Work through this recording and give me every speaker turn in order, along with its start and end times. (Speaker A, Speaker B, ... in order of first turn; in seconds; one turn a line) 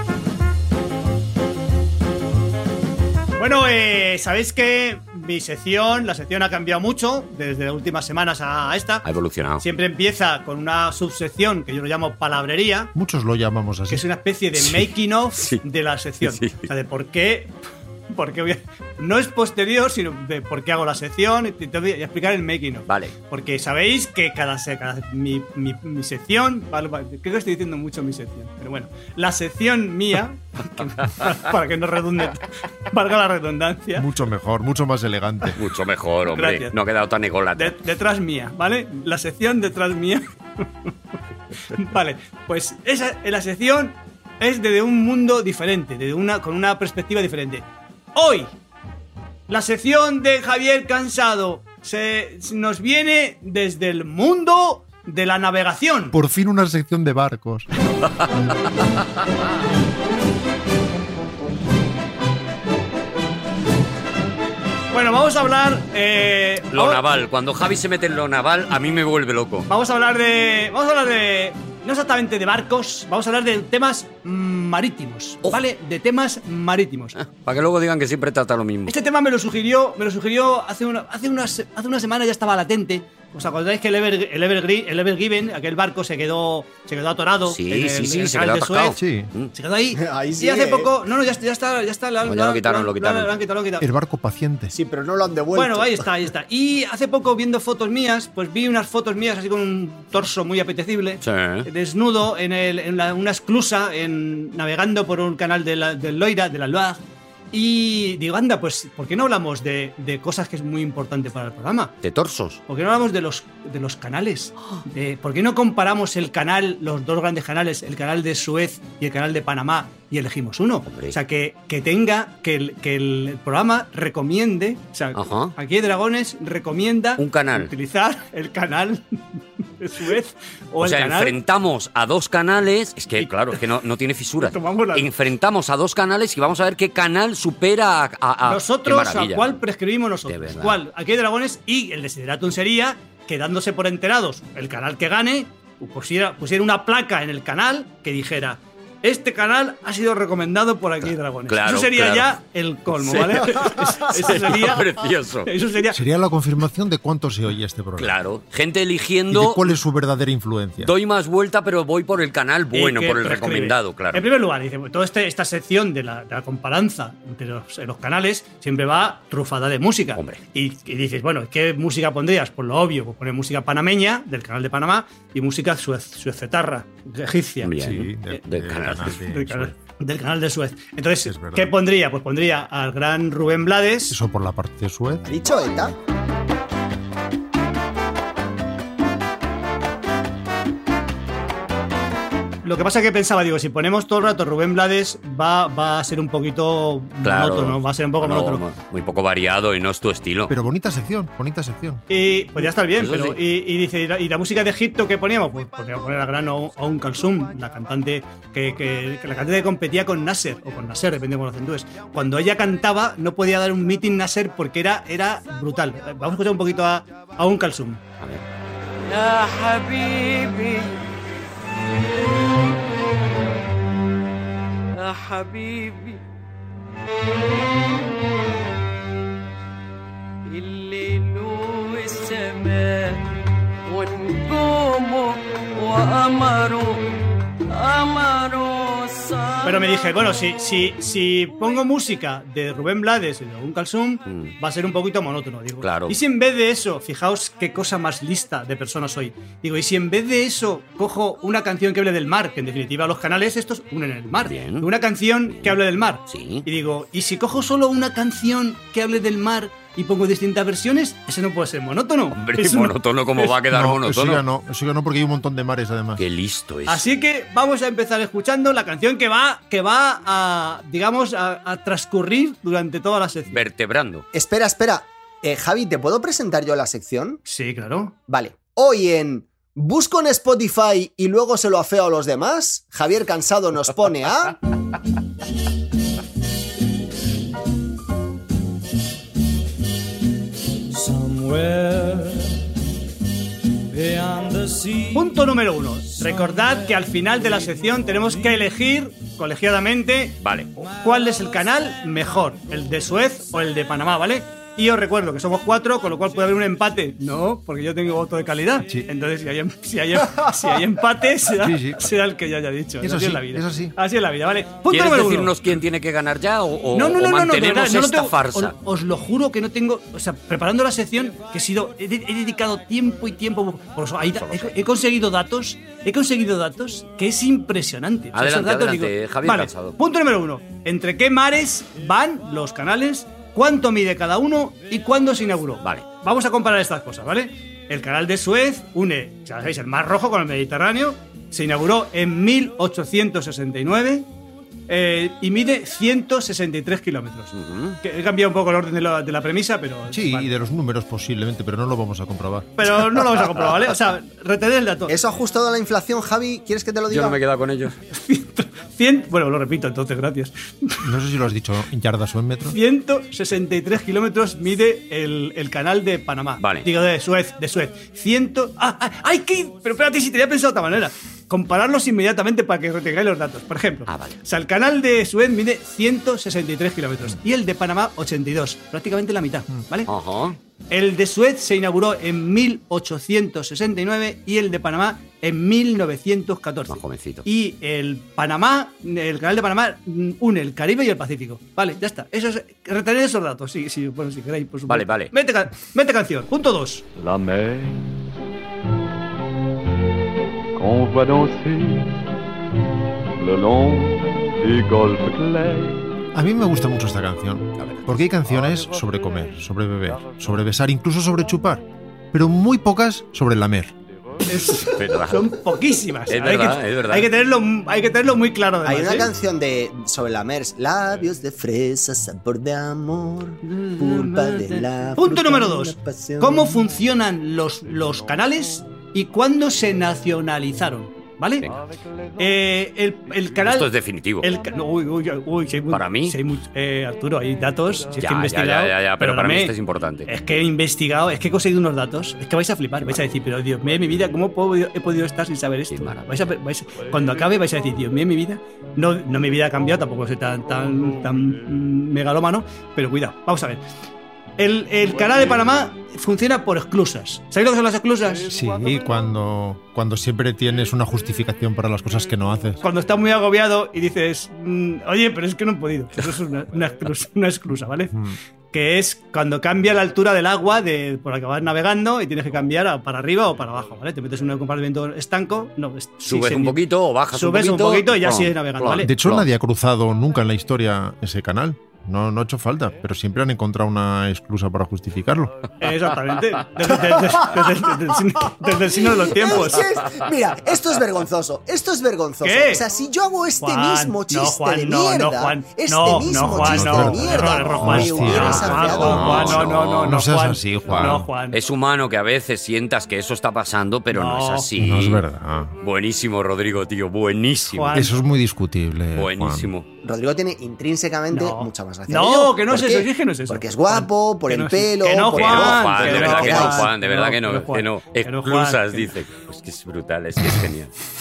Speaker A: 3.4-9.0
Speaker B: 9.0-9.6
Speaker A: 9.6-12.9
Speaker C: 12.9-14.0
Speaker A: 13.9-17.5
Speaker B: 14.6-14.8
Speaker B: 15.4-15.6
Speaker B: 16.2-16.7
Speaker A: 18.1-34.0
Speaker B: 22.9-23.1
Speaker C: 34.0-35.6
Speaker B: 35.5-37.8
Speaker A: 36.3-36.7
Speaker A: 37.5-40.6
Speaker A: 41.7-48.5
Speaker A: 49.5-56.2
Speaker C: 56.1-57.7
Speaker B: 58.0-58.4
Speaker A: 64.9-67.0
Speaker B: 66.7-69.7
Speaker A: 69.7-77.2
Speaker B: 77.2-78.9
Speaker A: 78.9-89.0
Speaker B: 87.5-89.5
Speaker C: 89.0-89.3
Speaker A: 89.5-93.8
Speaker D: 89.9-90.9
Speaker B: 92.2-93.3
Speaker C: 93.8-94.7
Speaker D: 94.7-96.1
Speaker A: 95.5-111.9
Speaker B: 101.2-101.7
Speaker B: 112.0-112.6
Speaker A: 112.7-129.1
Speaker B: 120.9-121.1
Speaker B: 125.1-125.5
Speaker B: 127.2-127.7
Speaker A: 129.8-131.3
Speaker B: 130.8-139.5
Speaker A: 134.4-135.1
Speaker A: 138.4-154.9
Speaker B: 140.3-140.8
Speaker B: 151.0-152.3
Speaker B: 152.9-155.5
Speaker A: 155.4-156.0
Speaker C: 155.9-158.2
Speaker B: 158.0-159.7
Speaker C: 159.3-160.9
Speaker B: 160.8-164.2
Speaker A: 162.7-177.7
Speaker B: 170.2-170.4
Speaker B: 177.6-179.2
Speaker C: 177.8-179.7
Speaker A: 179.1-184.2
Speaker C: 181.2-181.7
Speaker C: 184.1-185.2
Speaker D: 185.2-185.9
Speaker A: 192.6-198.6
Speaker B: 197.2-200.5
Speaker C: 200.5-202.0
Speaker A: 202.1-218.0
Speaker B: 202.9-203.4
Speaker E: 219.1-221.0
Speaker E: 224.9-226.2
Speaker E: 230.4-233.3
Speaker E: 233.9-237.1
Speaker E: 237.7-239.9
Speaker A: 239.6-263.5
Speaker B: 244.3-244.5
Speaker B: 245.8-246.2
Speaker B: 254.4-254.9
Speaker B: 256.3-256.6
Speaker B: 262.3-264.4
Speaker C: 263.7-266.2
Speaker B: 266.2-267.1
Speaker A: 266.9-273.6
Speaker B: 273.5-274.2
Speaker D: 274.3-277.4
Speaker A: 277.4-278.1
Speaker D: 278.3-284.6
Speaker F: 290.9-292.6
Speaker F: 293.9-295.4
Speaker A: 295.1-315.5
Speaker F: 296.1-297.1
Speaker B: 300.4-300.7
Speaker C: 311.5-312.1
Speaker C: 313.0-313.9
Speaker B: 314.9-318.7
Speaker A: 316.9-344.3
Speaker B: 324.3-324.8
Speaker B: 328.3-330.0
Speaker A: 344.9-350.5
Speaker B: 347.5-348.0
Speaker C: 350.1-353.4
Speaker A: 352.8-355.1
Speaker D: 355.1-357.4
Speaker B: 357.1-357.9
Speaker A: 358.1-361.1
Speaker C: 361.0-362.8
Speaker A: 362.7-380.1
Speaker B: 366.6-366.9
Speaker B: 374.1-374.4
Speaker B: 380.1-380.6
Speaker A: 380.9-397.0
Speaker B: 386.9-387.4
Speaker B: 394.9-395.3
Speaker G: 397.1-398.2
Speaker G: 400.8-402.3
Speaker G: 403.4-406.2
Speaker C: 406.3-413.9
Speaker G: 408.4-409.5
Speaker G: 410.1-410.7
Speaker A: 414.4-419.3
Speaker B: 414.9-415.6
Speaker B: 416.3-417.3
Speaker D: 418.8-426.8
Speaker A: 423.6-431.7
Speaker G: 431.7-432.4
Speaker A: 432.4-439.7
Speaker B: 433.6-434.5
Speaker B: 435.9-436.4
Speaker B: 438.2-440.3
Speaker A: 440.3-453.8
Speaker B: 445.9-446.5
Speaker G: 447.0-447.5
Speaker G: 450.8-451.8
Speaker A: 454.6-458.5
Speaker G: 458.4-459.0
Speaker C: 458.5-462.8
Speaker A: 462.8-468.1
Speaker C: 468.1-468.4
Speaker A: 468.7-476.8
Speaker B: 476.2-479.5
Speaker A: 477.3-479.1
Speaker C: 479.0-485.5
Speaker A: 485.8-489.9
Speaker D: 489.2-499.6
Speaker A: 492.4-492.8
Speaker A: 493.6-501.6
Speaker C: 496.4-501.3
Speaker B: 498.4-500.2
Speaker B: 500.9-505.2
Speaker A: 504.1-504.7
Speaker C: 504.8-505.7
Speaker B: 505.8-508.0
Speaker A: 507.7-508.2
Speaker C: 507.9-509.7
Speaker B: 509.1-509.9
Speaker D: 510.0-516.9
Speaker A: 511.3-519.1
Speaker B: 515.3-520.9